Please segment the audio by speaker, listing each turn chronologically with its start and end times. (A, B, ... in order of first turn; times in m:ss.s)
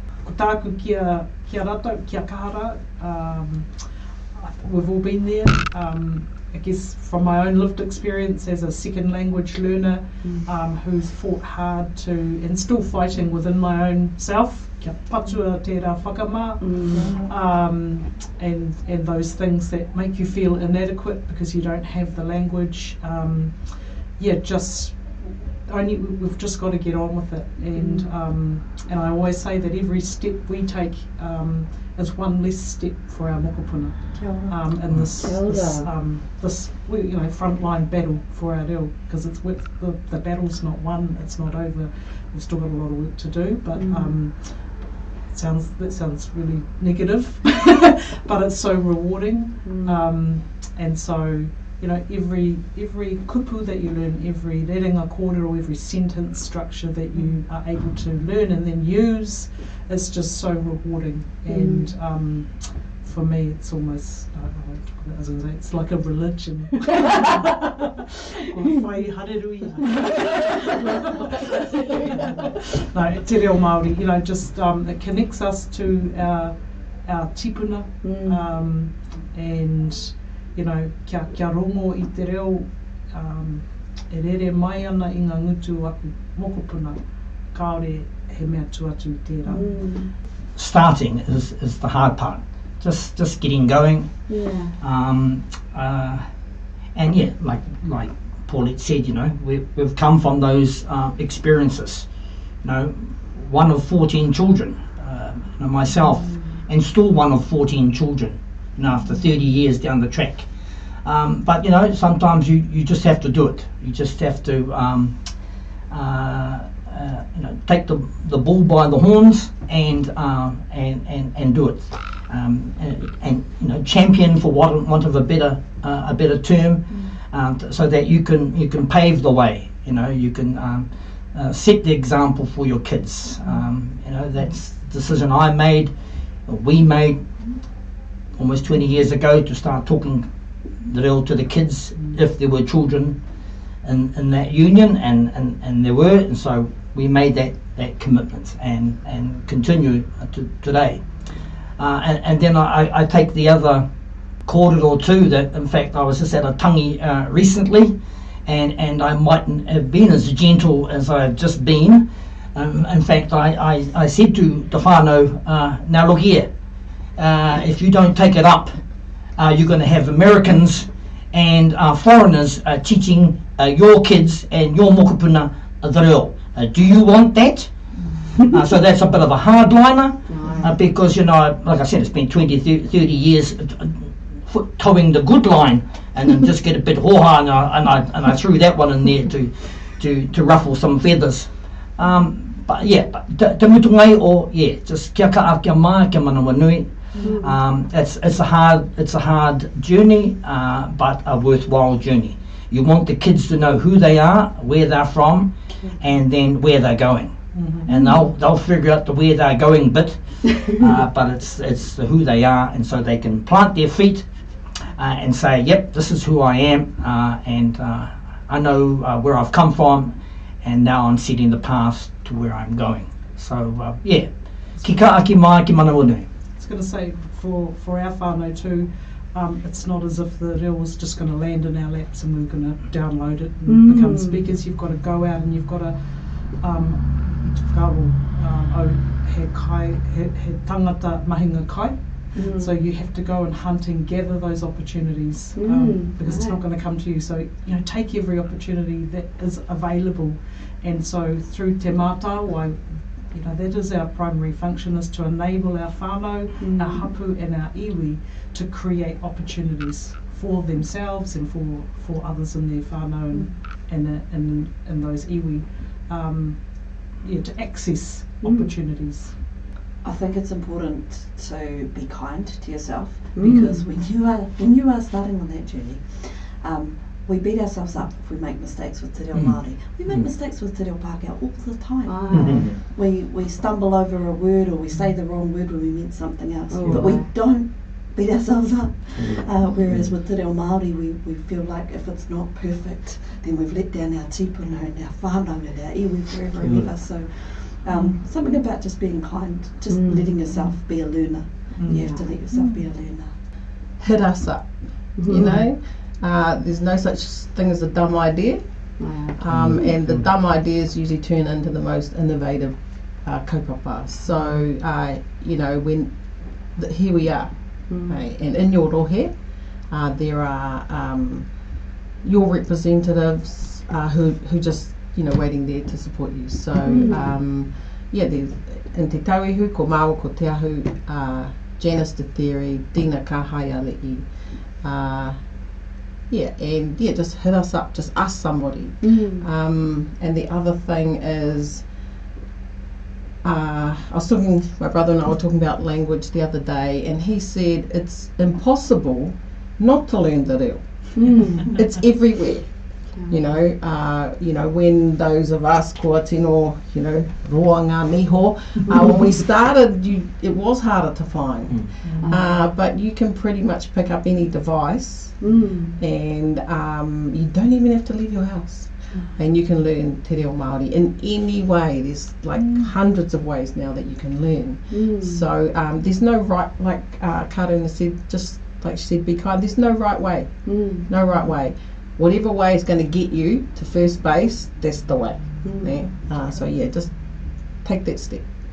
0:00.2-1:29.7 A
0:10.2-0:10.5 B
0:16.6-0:17.2 B
0:16.9-0:17.3 C
0:27.8-0:28.1 B
0:34.1-0:34.6 D
0:35.2-0:35.9 B
0:43.7-0:44.2 B
0:49.6-0:50.0 B
1:01.5-1:01.9 B
1:18.0-1:18.4 B
1:29.5-1:30.1 B
1:30.6-1:36.4 E
1:34.3-1:34.8 B
1:36.9-2:17.3 E
2:18.4-2:23.2 E
2:23.8-2:33.9 E
2:34.4-2:46.5 E
2:47.2-2:57.7 E
2:58.4-3:34.3 E
3:00.3-3:00.8 B
3:17.2-3:17.6 B
3:27.5-3:27.9 A
3:27.9-3:28.2 B
3:35.0-3:46.2 E
3:44.8-3:45.1 A
3:46.6-4:29.4 A
3:53.7-3:54.5 B
4:02.3-4:02.7 B
4:05.6-4:06.6 B
4:16.6-4:17.1 B
4:28.4-4:28.7 B
4:30.0-5:03.3 D
4:33.4-4:33.8 B
4:39.3-4:40.3 E
4:42.0-4:42.7 B
4:42.3-4:42.8 E
4:46.7-4:47.3 B
4:46.8-4:47.2 E
4:49.2-4:50.1 E
4:56.6-4:56.9 E
4:57.9-4:58.2 A
4:59.9-5:00.3 B
5:01.8-5:02.8 A
5:01.9-5:02.3 B
5:04.0-5:16.2 C
5:05.2-5:05.6 B
5:09.0-5:09.4 B
5:09.5-5:10.3 E
5:14.3-5:14.6 A
5:16.8-5:19.3 C
5:17.9-5:18.2 B
5:19.9-5:21.5 C
5:22.2-5:35.4 C
5:26.8-5:27.3 B
5:36.3-5:41.9 C
5:39.0-5:39.5 B
5:43.4-6:28.5 C
5:51.2-5:51.7 B
5:53.1-5:53.4 B
6:02.0-6:02.4 A
6:02.2-6:02.7 B
6:05.4-6:06.0 B
6:12.6-6:12.9 A
6:14.9-6:15.5 B
6:20.6-6:21.1 B
6:25.6-6:26.0 B